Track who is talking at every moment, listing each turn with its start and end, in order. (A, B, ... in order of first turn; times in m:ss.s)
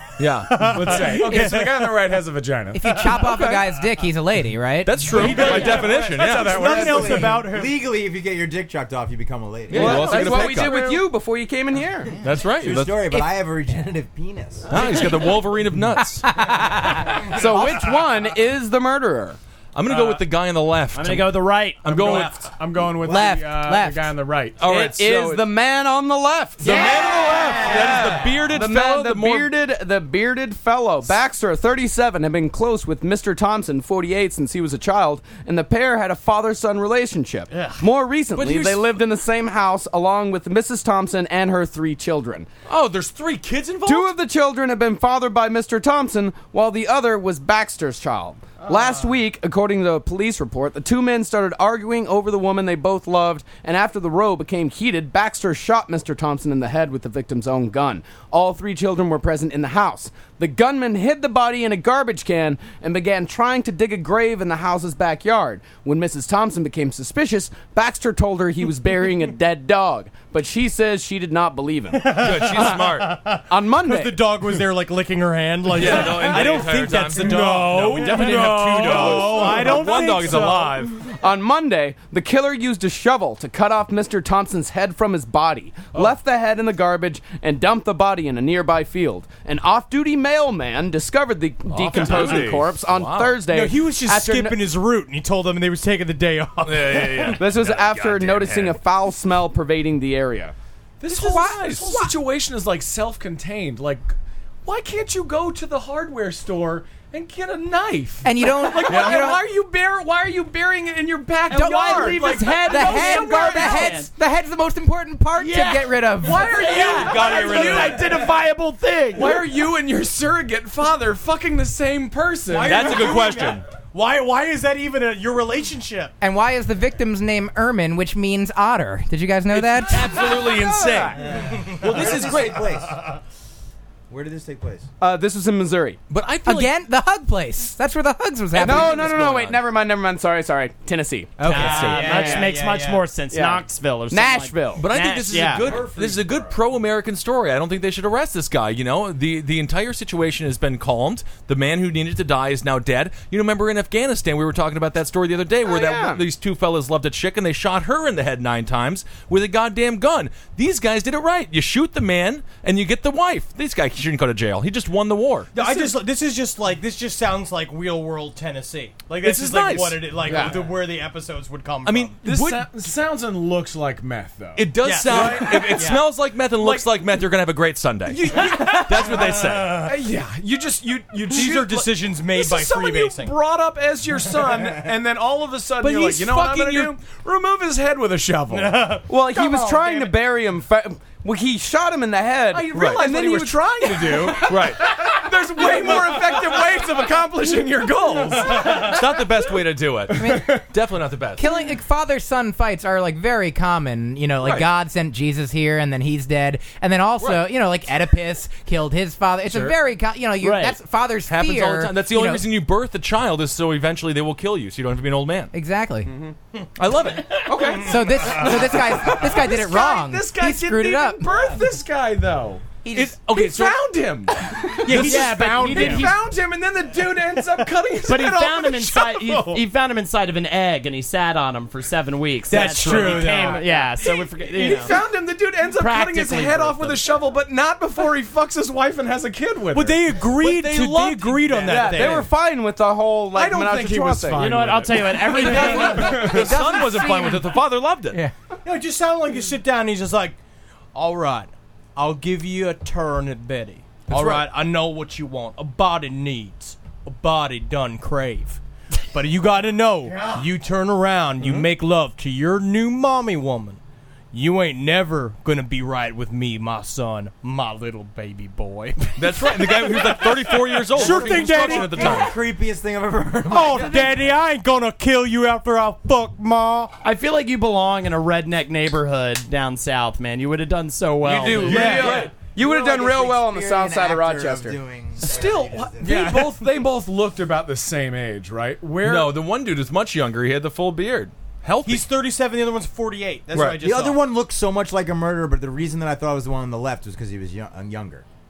0:00.2-0:01.2 A
0:00.5-0:02.0 B
0:00.6-0:02.8 C
0:01.3-0:01.6 D
0:02.7-0:05.0 D
0:03.1-0:03.7 A
0:04.8-0:07.2 A
0:05.1-0:07.8 B
0:05.1-0:06.1 E
0:05.6-0:07.3 C
0:06.3-0:10.8 F
0:09.7-0:10.9 A
0:09.7-0:12.1 G
0:10.0-0:10.4 E
0:12.2-0:13.1 A
0:12.6-0:14.7 F
0:14.7-0:16.3 A
0:16.2-0:17.4 D
0:17.3-0:19.4 G
0:19.7-0:22.5 A
0:19.9-0:20.2 C
0:20.9-0:21.9 E
0:21.9-0:24.6 C
0:23.0-0:24.1 D
0:24.6-0:25.4 A
0:24.6-0:42.5 G
0:26.6-0:29.5 A
0:26.6-0:28.4 B
0:38.3-0:38.8 A
0:42.7-0:44.1 A
0:43.9-1:12.6 G
1:11.9-1:20.8 B
1:12.1-1:13.2 A
1:13.5-1:14.2 G
1:15.7-1:21.0 A
1:15.8-1:20.5 C
1:21.0-1:34.7 G
1:31.7-1:33.4 A
1:32.1-1:32.4 B
1:33.5-1:37.4 B
1:36.6-1:38.8 A
1:37.4-1:40.5 G
1:41.0-1:54.0 C
1:41.1-1:42.1 D
1:41.2-1:42.0 A
1:48.2-1:49.4 D
1:48.9-1:49.3 A
1:51.5-1:56.8 D
1:51.5-1:54.1 E
1:55.4-1:55.9 E
1:56.2-1:58.3 C
1:56.5-1:59.4 E
1:56.7-1:58.1 A
1:59.1-2:03.2 C
2:02.5-2:06.1 B
2:02.6-2:03.6 A
2:06.2-2:10.2 D
2:09.5-2:12.7 A
2:11.6-2:13.0 F
2:14.1-2:14.9 F
2:15.0-2:16.0 G
2:16.1-2:16.7 A
2:16.4-2:19.0 D
2:18.6-2:19.6 A
2:18.6-2:22.6 G
2:21.4-2:23.1 B
2:21.4-2:25.8 E
2:21.5-2:22.4 A
2:23.3-2:24.8 G
2:24.8-2:45.8 A
2:25.3-2:26.6 C
2:35.6-2:36.2 G
2:45.6-2:52.2 B
2:49.2-2:50.6 A
2:50.2-2:50.5 G
2:50.3-2:50.6 C
2:51.8-2:52.7 A
2:52.2-2:56.0 C
2:54.6-2:59.9 A
2:54.8-2:56.2 B
2:56.6-2:56.9 C
2:58.1-3:09.0 C
2:58.3-2:59.9 B
3:01.2-3:03.4 B
3:05.8-3:07.0 A
3:08.5-3:10.1 B
3:09.1-3:14.5 G
3:12.5-3:19.4 C
3:12.7-3:13.1 A
3:14.3-3:14.9 A
3:15.6-3:17.0 G
3:18.4-3:21.5 A
3:20.1-3:20.7 C
3:20.1-3:20.6 D
3:21.4-3:32.4 D
3:24.4-3:24.7 A
3:30.4-3:30.8 E
3:31.3-3:35.5 A
3:35.5-3:36.1 D
3:36.8-3:37.5 A
3:37.4-3:49.6 C
3:37.8-3:41.2 D
3:42.8-3:43.1 D
3:42.9-3:43.9 A
3:44.8-3:46.1 B
3:44.9-3:46.1 E
3:48.1-3:55.0 E
3:48.9-3:49.6 B
3:52.5-3:53.9 B
3:52.6-4:00.2 C
3:55.7-3:57.0 E
3:59.7-4:02.3 B
4:00.4-4:02.2 A
4:01.5-4:02.2 C
4:01.6-4:04.5 G
4:03.3-4:07.0 C
4:04.4-4:06.3 E
4:05.3-4:07.5 B
4:05.3-4:08.2 A
4:08.6-4:10.4 B
4:10.9-4:18.6 B
4:14.1-4:14.4 A
4:19.1-4:23.8 B
4:21.4-4:21.7 A
4:24.3-4:32.3 B
4:29.2-4:32.3 A
4:30.9-4:34.3 F
4:33.5-4:36.9 B
4:37.0-4:42.1 E
4:41.2-4:42.4 A
4:41.6-4:42.3 B
4:41.7-4:44.8 G
4:41.7-4:46.4 F
4:41.9-4:42.2 C
4:45.2-4:49.4 C
4:49.0-4:51.3 A
4:51.8-4:54.2 B
4:53.5-4:53.8 A
4:53.8-4:58.2 F